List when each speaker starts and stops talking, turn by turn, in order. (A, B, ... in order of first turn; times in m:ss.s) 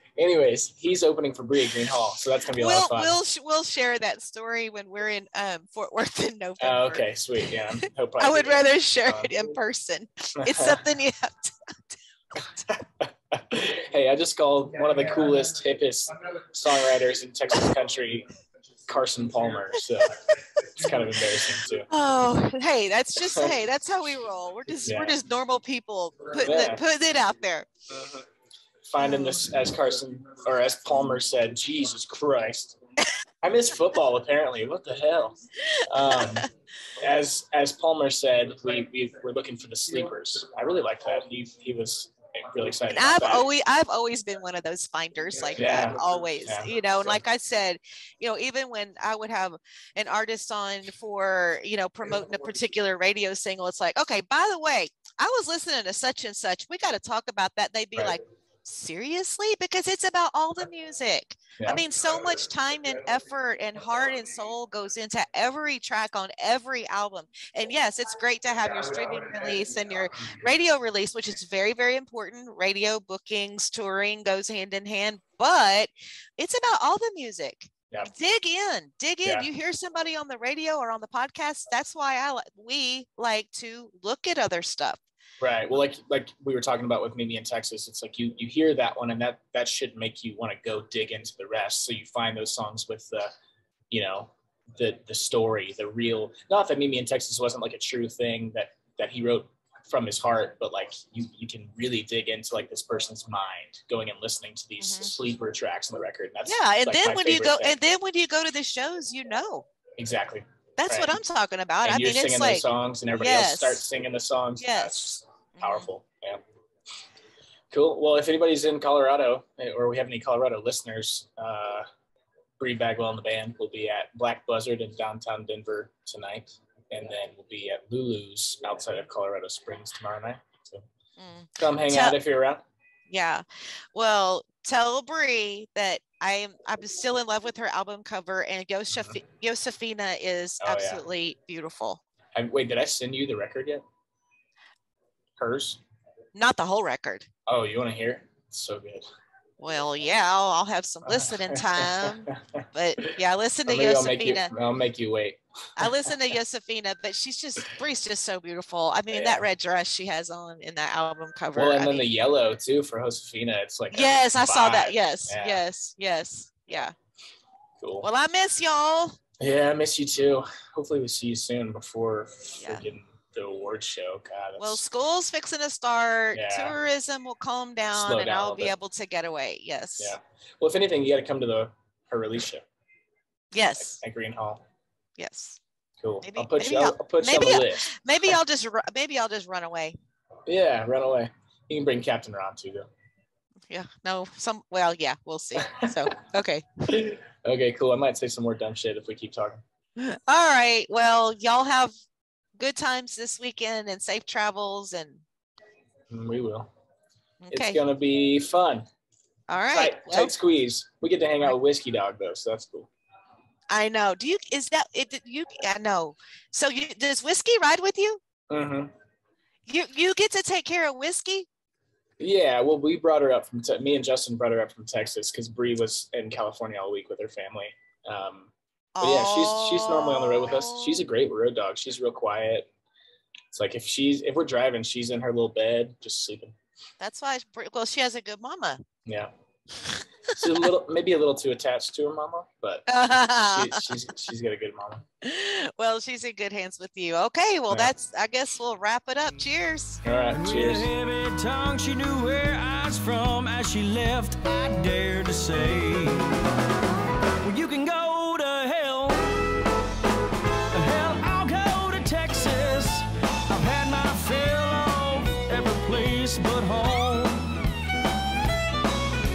0:00.2-0:03.2 A
0:02.6-0:11.7 B
0:06.6-0:09.3 A
0:10.4-0:10.8 A
0:12.4-0:12.6 B
0:13.0-0:18.3 A
0:18.9-0:20.2 A
0:20.8-0:21.9 A
0:21.9-0:27.7 B
0:23.3-0:23.6 A
0:24.8-0:25.2 A
0:26.4-0:26.8 A
0:27.9-0:28.3 A
0:28.9-0:32.8 A
0:29.0-0:29.4 B
0:33.4-0:36.5 A
0:36.1-0:36.4 B
0:37.0-0:43.5 A
0:42.9-1:25.0 B
0:45.6-0:47.2 A
1:25.4-1:33.3 A
1:33.9-1:47.8 A
1:44.8-1:45.1 B
1:46.4-1:49.7 B
1:50.0-1:51.2 A
1:50.8-1:53.9 B
1:51.8-1:56.4 A
1:54.6-1:55.9 B
1:57.7-2:01.9 A
2:02.6-2:10.8 A
2:11.2-2:12.2 B
2:11.6-2:12.6 A
2:13.1-2:13.4 B
2:14.0-2:22.0 B
2:20.6-2:21.1 A
2:22.4-2:23.8 A
2:25.4-2:25.8 A
2:26.4-2:27.3 B
2:27.5-2:29.1 A
2:29.6-2:34.5 B
2:31.0-2:33.1 A
2:33.7-2:35.9 A
2:35.8-2:42.1 B
2:39.1-2:39.5 A
2:41.6-2:45.6 A
2:43.9-2:46.9 B
2:47.8-2:48.1 A
2:48.0-2:49.2 B
2:49.4-2:54.8 A
2:54.6-3:00.2 B
2:56.3-2:56.8 A
2:57.9-2:58.7 A
3:00.0-3:02.7 A
3:03.5-3:04.0 B
3:03.8-3:04.6 A
3:05.2-3:05.6 B
3:06.0-3:08.0 A
3:06.2-3:10.0 B
3:10.5-3:12.9 A
3:13.7-3:16.7 B
3:15.6-3:15.9 A
3:16.9-3:19.6 A
3:20.0-3:21.9 B
3:22.6-3:25.2 B
3:26.1-3:26.7 A
3:27.4-3:27.8 B
3:27.5-3:28.9 A
3:29.5-3:30.3 B
3:29.7-3:32.9 A
3:33.7-3:38.2 B
3:38.5-3:38.9 A
3:39.7-3:41.5 B
3:42.2-3:52.7 A
3:49.0-3:51.0 B
3:53.5-3:56.6 A
3:57.0-3:58.8 B
3:59.1-3:59.3 A
4:00.3-4:03.0 A
4:02.9-4:04.0 B
4:03.5-4:05.0 A
4:05.2-4:10.0 B
4:10.0-4:10.9 A
4:10.3-4:16.4 C
4:17.4-4:19.3 C
4:20.7-4:27.6 C